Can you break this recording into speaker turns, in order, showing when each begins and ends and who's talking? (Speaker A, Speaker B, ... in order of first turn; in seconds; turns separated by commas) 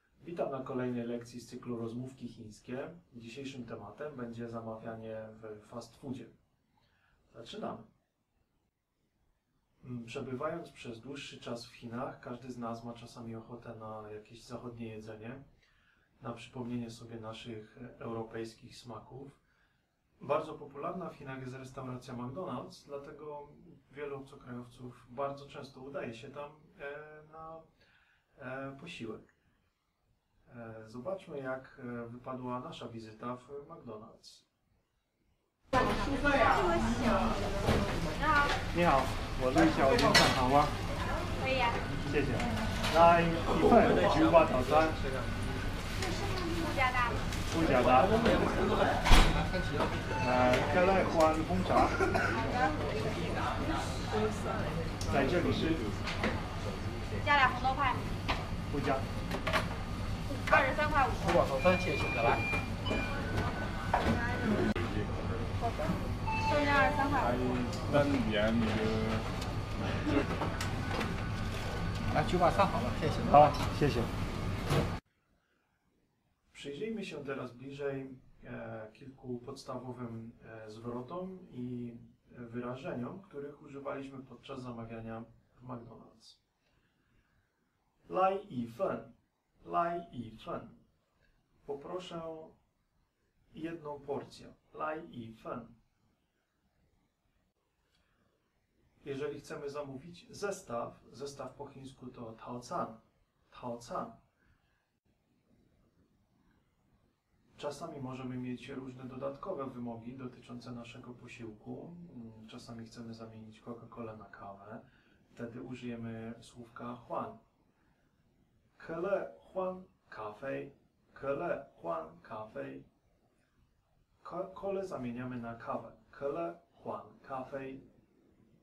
Speaker A: 0.2-6.3, Speaker A: 7.3-7.9, Speaker A: 9.8-15.4, Speaker A: 16.2-19.4, Speaker A: 20.2-27.6, Speaker A: 28.4-29.3, Speaker A: 30.5-34.4, Speaker B: 36.3-37.2, Speaker B: 38.2-38.5, Speaker A: 38.7-40.7, Speaker B: 41.4-41.8, Speaker A: 42.1-45.0, Speaker B: 46.5-47.2, Speaker A: 47.5-48.4, Speaker C: 49.3-49.9, Speaker A: 50.2-52.0, Speaker A: 55.1-55.9, Speaker B: 57.2-58.1, Speaker A: 58.7-59.0, Speaker B: 60.5-61.4, Speaker C: 61.2-62.4, Speaker B: 66.4-67.4, Speaker D: 67.2-69.2, Speaker C: 72.1-73.6, Speaker A: 73.3-74.1, Speaker A: 76.5-86.4, Speaker A: 88.1-90.8, Speaker A: 91.6-92.5, Speaker A: 93.5-95.7, Speaker A: 99.0-104.2, Speaker A: 107.5-117.4, Speaker A: 118.8-122.8, Speaker A: 124.2-127.8